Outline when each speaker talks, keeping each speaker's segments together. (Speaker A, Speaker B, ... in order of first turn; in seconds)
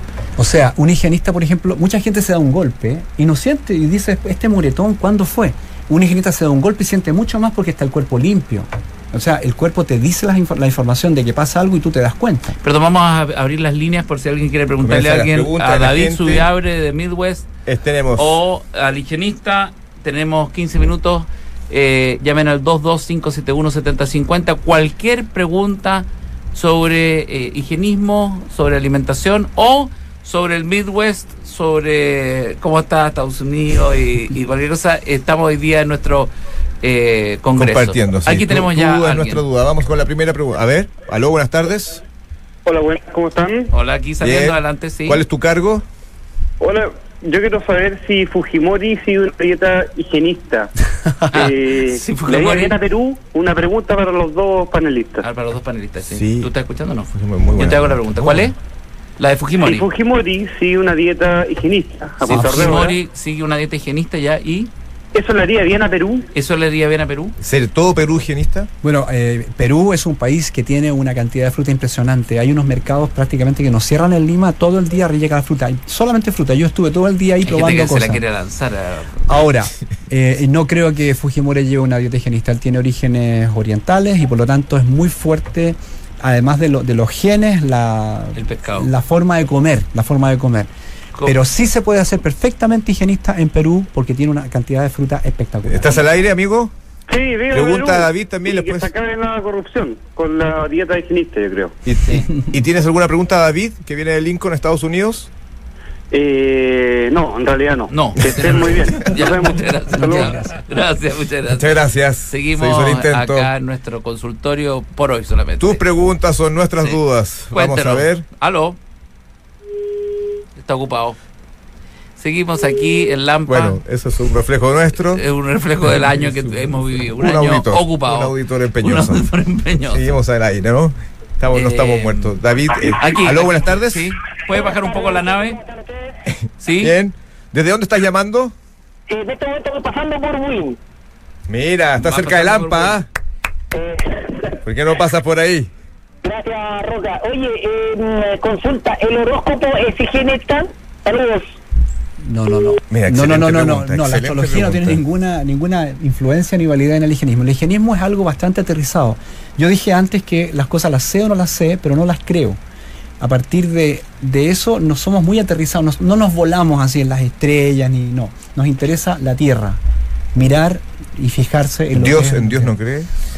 Speaker A: 0.4-12.6, 62.3-62.9, 68.8-78.2, 79.3-90.7, 91.2-96.1, 110.0-110.5, 152.2-162.6, 163.2-169.8, 170.3-172.8
Speaker B: 12.6-17.5, 18.2-36.3, 36.8-39.4, 43.7-45.2, 51.3-52.8, 55.2-58.6, 59.2-59.9, 62.2-64.7, 66.3-67.4, 77.4-79.3, 88.3-88.9, 91.2-91.4, 107.9-115.8, 117.5-118.8, 120.6-121.2, 122.2-123.8, 125.0-130.2, 131.5-135.6, 136.6-136.9, 142.0-143.0
Speaker C: 14.8-16.5, 17.7-18.4, 37.6-42.0, 44.2-45.9, 56.0-56.5, 57.1-58.5, 67.4-68.7, 95.7-96.7, 97.5-98.9, 101.8-105.3, 111.5-113.5, 115.6-118.3, 123.5-125.2, 127.1-129.3, 129.9-134.1, 136.8-138.6, 141.5-143.1, 144.7-145.7, 152.9-155.0, 171.9-173.1
Speaker D: 42.6-43.7, 46.6-50.7, 51.3-55.2, 59.6-63.0, 65.1-66.3, 97.1-101.8, 106.1-110.4
Speaker E: 134.5-136.2, 139.1-140.8, 143.7-144.6, 146.2-151.6